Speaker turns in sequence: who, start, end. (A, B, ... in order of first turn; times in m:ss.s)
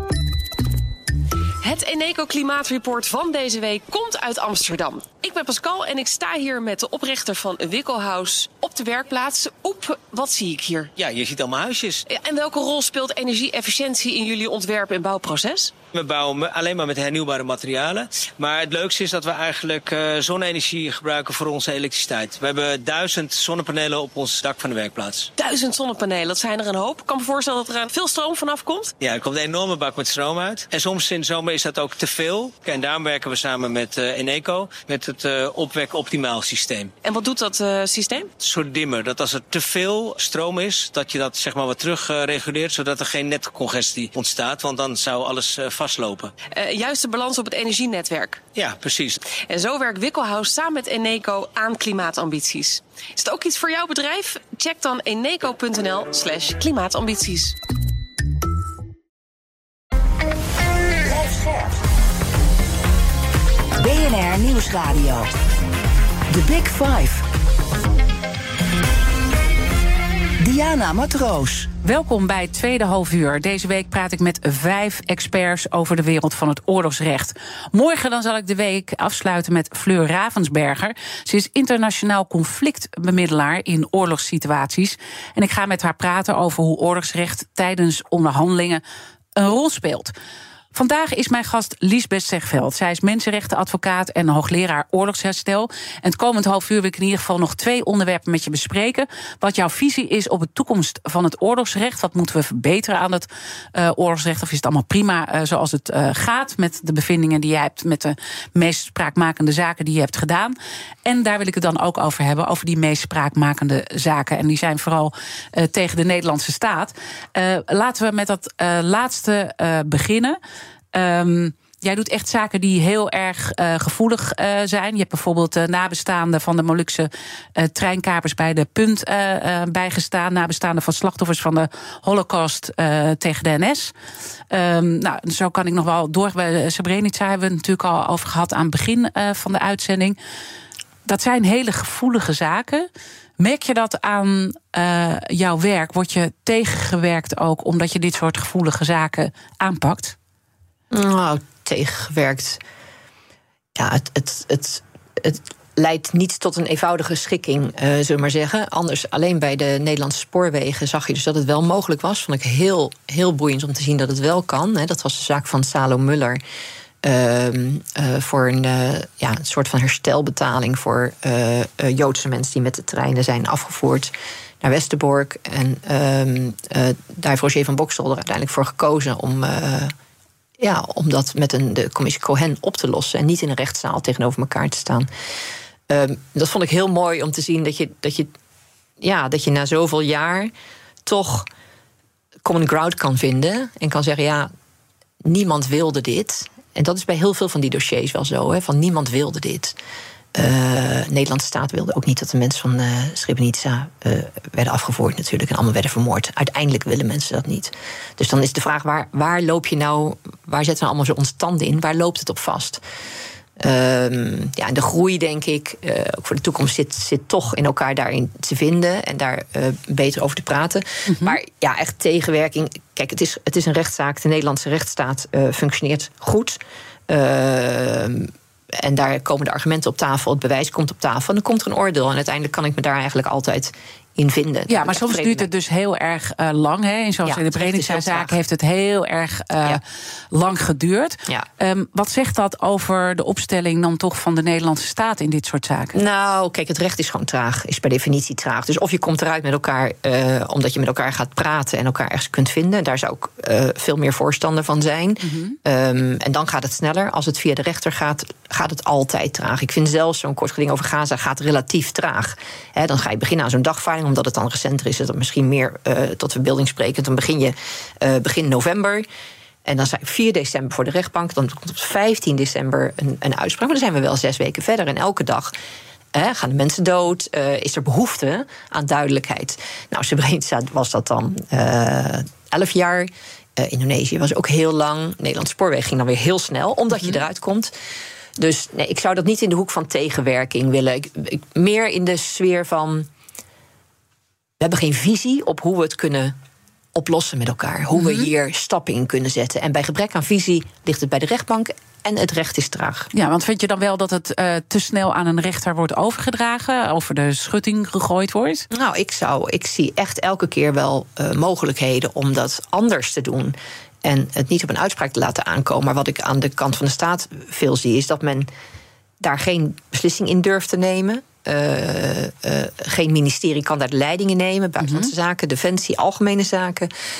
0:01.6-0:10.9 A
0:11.0-0:12.0 B
0:12.1-0:15.7 A
0:15.9-0:25.3 B
0:25.4-0:28.9 A
0:29.0-0:36.9 B
0:37.0-0:38.3 A
0:38.4-0:46.3 B
0:46.5-0:48.4 A
0:48.5-0:49.2 B
0:49.3-0:57.5 A
1:01.0-1:01.8 C
1:03.7-1:05.3 C
1:06.3-1:07.2 C
1:10.4-1:11.7 C
1:11.8-1:28.8 D
1:29.4-1:30.1 D
1:30.7-2:00.4 D
2:00.9-2:13.9 D
2:14.5-2:20.2 D
2:21.0-2:22.9 D
2:23.4-2:30.1 D
2:30.9-2:32.6 E
2:33.8-2:46.4 E
2:47.0-2:59.9 E
3:00.6-3:05.1 E
3:05.9-3:08.3 E
3:09.0-3:10.5 E
3:11.0-3:11.5 E
3:12.4-3:14.5 E
3:15.2-3:19.8 E
3:20.3-3:32.8 E
3:33.6-3:55.5 E
3:41.0-3:41.4 D
3:54.7-4:05.9 D
3:57.2-3:58.4 E
4:05.9-4:29.0 E
4:15.2-4:15.6 D
4:29.6-4:35.5 E
4:36.1-4:47.7 E
4:48.4-4:53.1 E
4:54.6-4:56.3 E
4:56.9-5:03.1 E
4:57.9-4:58.3 D
5:03.1-5:08.7 D
5:08.7-5:18.5 E
5:19.2-5:26.9 E
5:24.8-5:25.1 D